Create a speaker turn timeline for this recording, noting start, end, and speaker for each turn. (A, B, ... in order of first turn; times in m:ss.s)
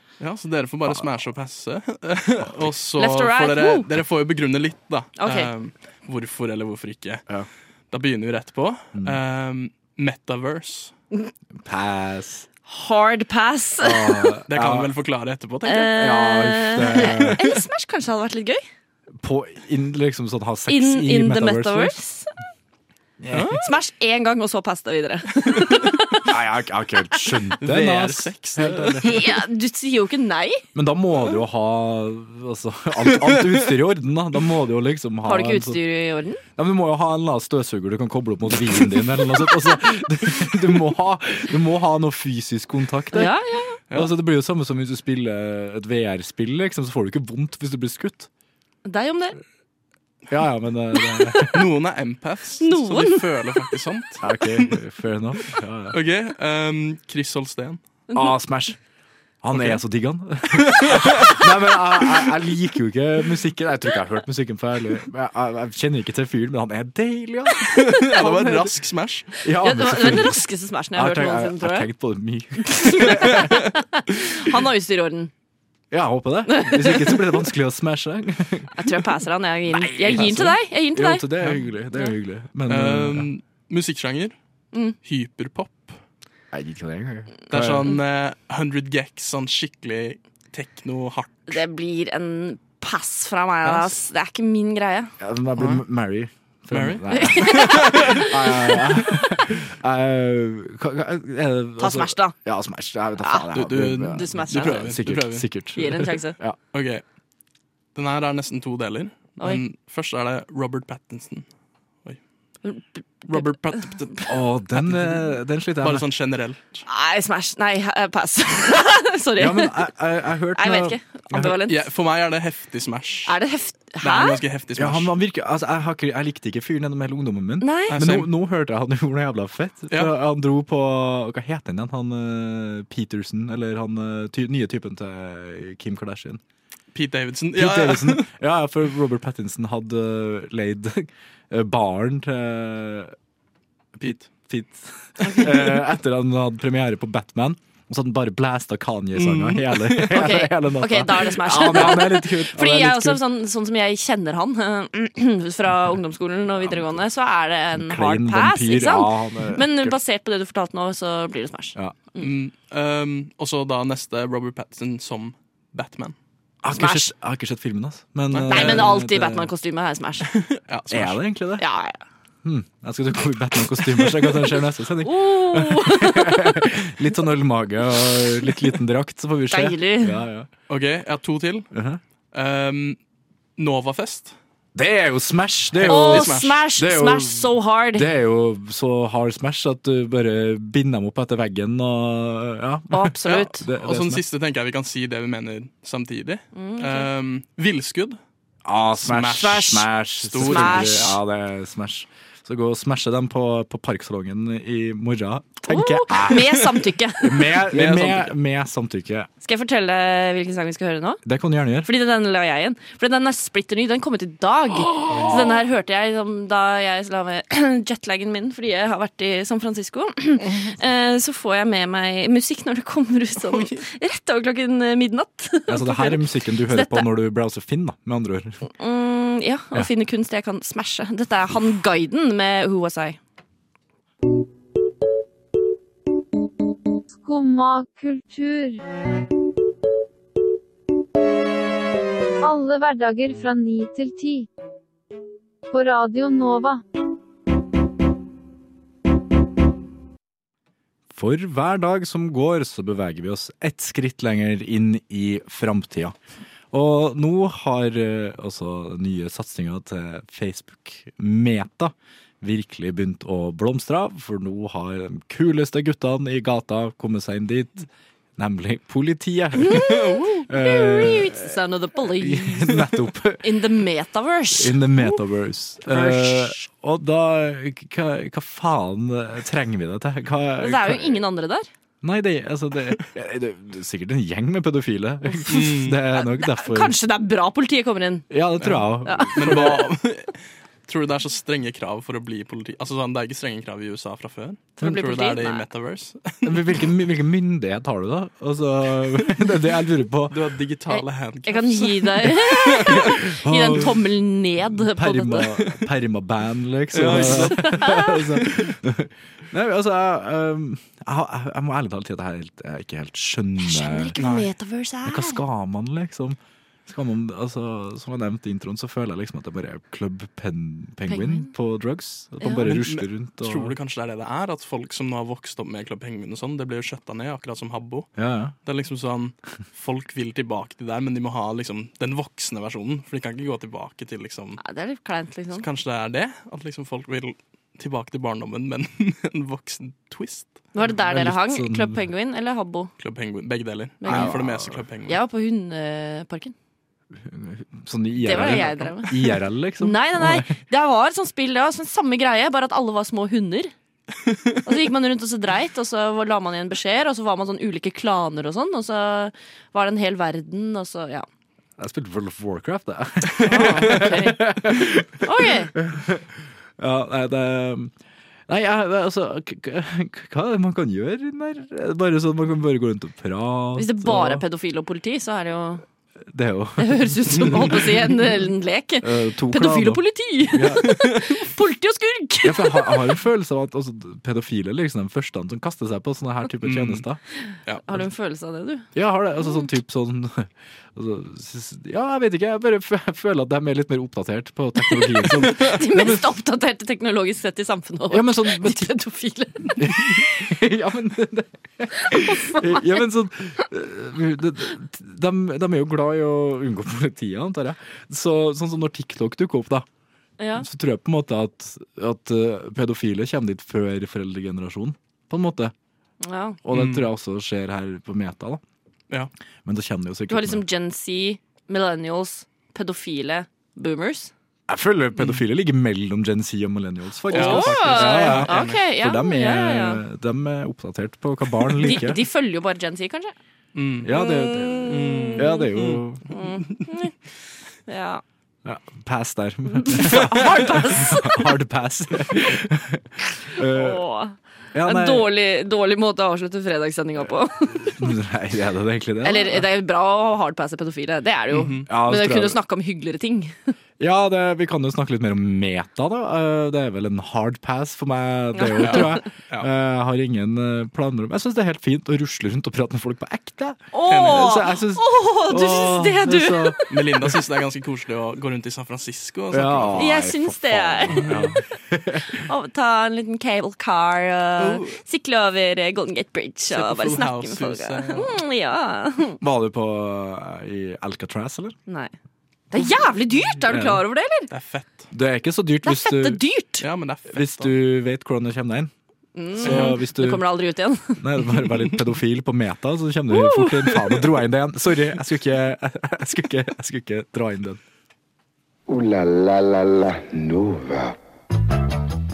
0:00.2-0:07.2 A
0:03.0-0:03.9 B
0:05.2-0:05.5 B
0:07.9-0:10.9 A
0:11.6-0:12.5 C
0:12.7-0:14.3 B
0:13.8-0:14.9 C
0:14.5-0:15.9 A
0:15.6-0:18.6 B
0:15.8-0:17.5 C
0:19.2-0:22.0 C
0:20.7-0:22.3 B
0:23.2-0:23.6 C
0:23.3-0:23.6 A
0:23.5-0:26.3 B
0:26.2-0:29.2 C
0:27.6-0:29.2 A
0:29.0-0:30.6 B
0:30.7-0:35.8 C
0:35.2-0:36.4 B
0:36.6-0:43.3 C
0:43.1-0:43.8 B
0:43.9-0:48.3 C
0:48.8-0:49.4 B
0:50.3-0:51.7 C
0:51.4-0:54.8 A
0:52.6-0:53.8 B
0:54.2-0:56.0 C
0:55.9-0:57.8 A
0:58.1-0:58.3 B
0:58.1-0:58.8 C
0:59.4-1:08.7 C
0:59.5-0:59.8 A
1:00.5-1:01.4 A
1:07.7-1:09.3 A
1:09.4-1:13.6 C
1:09.6-1:11.9 B
1:12.6-1:15.3 B
1:15.9-1:18.8 C
1:16.5-1:17.4 B
1:18.8-1:21.3 B
1:19.7-1:23.3 C
1:22.7-1:24.4 A
1:25.0-1:26.0 A
1:26.5-1:27.9 C
1:27.5-1:31.5 A
1:31.5-1:35.1 B
1:33.6-1:34.0 A
1:35.2-1:46.6 C
1:35.6-1:35.8 A
1:36.7-1:38.3 A
1:37.2-1:38.2 B
1:41.8-1:42.3 B
1:43.5-1:45.4 A
1:44.0-1:44.9 B
1:45.8-1:46.4 B
1:46.7-1:47.0 A
1:47.9-1:51.5 A
1:52.6-1:53.5 B
1:53.3-1:54.3 A
1:54.3-1:56.0 C
1:54.9-1:55.2 A
1:55.8-1:56.8 A
1:56.9-1:59.9 B
1:59.4-2:01.6 C
2:00.5-2:01.8 B
2:01.6-2:03.3 A
2:03.2-2:04.4 B
2:04.0-2:05.1 A
2:04.8-2:16.4 C
2:07.6-2:08.0 B
2:07.9-2:08.3 A
2:16.9-2:18.3 A
2:17.5-2:23.1 C
2:24.0-2:24.3 A
2:24.0-2:33.2 C
2:25.2-2:25.5 B
2:29.1-2:30.1 A
2:30.1-2:42.3 B
2:36.6-2:37.0 C
2:37.7-2:40.0 C
2:42.2-2:46.1 A
2:46.6-2:49.5 C
2:46.7-2:47.1 B
2:48.3-2:49.0 A
2:48.5-2:50.3 B
2:50.3-2:51.2 A
2:50.9-2:51.6 C
2:51.6-2:52.0 B
2:52.4-3:00.5 C
2:54.1-2:54.5 A
2:55.0-2:56.6 B
2:59.5-3:00.2 B
3:00.7-3:01.7 A
3:01.7-3:02.0 C
3:02.3-3:03.0 A
3:03.6-3:04.3 A
3:04.7-3:14.2 C
3:05.7-3:06.6 A
3:05.9-3:08.1 B
3:12.9-3:13.6 B
3:13.2-3:18.2 A
3:16.5-3:17.1 B
3:18.6-3:26.7 C
3:19.0-3:21.2 A
3:19.4-3:19.8 B
3:20.4-3:21.1 B
3:25.6-3:27.5 B
3:26.3-3:26.6 A
3:27.2-3:29.3 C
3:27.7-3:28.3 A
3:29.4-3:31.2 B
3:31.2-3:31.9 C
3:31.8-3:47.1 B
3:45.7-3:48.6 C
3:48.7-3:53.2 B
3:57.2-3:58.8 D
4:02.4-4:04.5 D
4:05.7-4:06.8 D
4:11.1-4:16.1 C
4:16.7-4:31.5 C
4:29.6-4:35.2 B
4:32.2-4:33.5 C
4:34.5-4:41.2 C
4:35.8-4:36.6 B
4:40.6-4:41.7 B
4:42.0-4:46.9 C
4:45.2-4:48.3 B
4:45.5-4:46.0 A
4:48.3-4:49.9 C
4:48.6-4:56.9 A
4:49.0-4:49.7 B
4:54.8-4:55.6 B
4:56.4-5:00.4 C
5:00.3-5:03.2 A
5:00.9-5:05.5 B
5:03.4-5:04.1 C
5:04.7-5:14.2 C
5:06.9-5:08.7 A
5:07.1-5:08.2 B
5:13.6-5:15.4 B
5:14.2-5:14.5 A
5:15.0-5:23.7 C
5:21.1-5:21.5 B
5:22.6-5:28.1 A
5:28.2-5:28.5 C
5:28.6-5:34.6 A
5:34.6-5:35.6 B
5:35.5-5:40.7 A
5:40.7-5:42.9 B
5:41.1-5:42.0 C
5:43.0-5:45.2 A
5:44.0-5:44.4 B
5:44.0-5:44.8 C
5:45.1-5:46.5 B
5:47.1-5:50.5 C
5:48.2-5:53.7 B
5:54.6-6:01.2 B
6:01.8-6:07.9 C
6:03.4-6:04.5 B
6:05.2-6:05.7 B
6:08.5-6:14.4 C
6:13.8-6:15.8 B
6:16.3-6:18.0 C
6:16.8-6:23.1 B
6:19.0-6:21.2 C
6:22.4-6:27.2 C
6:26.6-6:27.0 A
6:27.5-6:28.9 B
6:28.9-6:36.2 C
6:34.8-6:40.2 B
6:38.1-6:38.9 C
6:39.8-6:49.8 C
6:41.9-6:43.0 B
6:50.4-6:50.7 B
6:50.6-6:55.7 C
6:56.2-6:56.6 B
6:56.6-6:58.6 C
6:56.7-6:57.1 A
6:59.6-7:00.6 C
7:00.3-7:04.3 B
7:04.7-7:12.2 C
7:07.3-7:10.0 B
7:07.3-7:08.8 A
7:11.8-7:13.3 B
7:13.7-7:14.1 A
7:14.0-7:16.2 C
7:14.1-7:15.7 B
7:14.8-7:16.0 A
7:16.3-7:17.1 B
7:17.9-7:18.2 B
7:18.6-7:24.0 C
7:19.8-7:21.4 B
7:23.6-7:28.1 B
7:24.7-7:25.3 C
7:27.9-7:29.7 C
7:29.2-7:33.7 B
7:31.5-7:31.9 A
7:31.9-7:32.6 C
7:34.0-7:46.8 C
7:38.6-7:39.2 B
7:38.8-7:39.7 A
7:43.9-7:47.0 B
7:44.1-7:44.5 A
7:46.9-7:50.1 A
7:49.5-7:52.4 C
7:50.0-7:51.5 B
7:51.1-7:51.5 A
7:52.1-7:59.4 B
7:54.6-7:55.0 A
7:56.7-7:58.4 A
7:59.4-8:01.7 C
8:01.9-8:02.1 B
8:02.7-8:04.5 B
8:03.7-8:04.0 C
8:04.5-8:05.1 A
8:05.1-8:06.4 C
8:05.8-8:06.8 B
8:06.8-8:07.7 A
8:07.3-8:08.9 C
8:09.4-8:11.2 B
8:09.5-8:10.4 C
8:09.6-8:10.0 A
8:11.2-8:17.8 C
8:13.3-8:13.7 B
8:18.9-8:21.1 E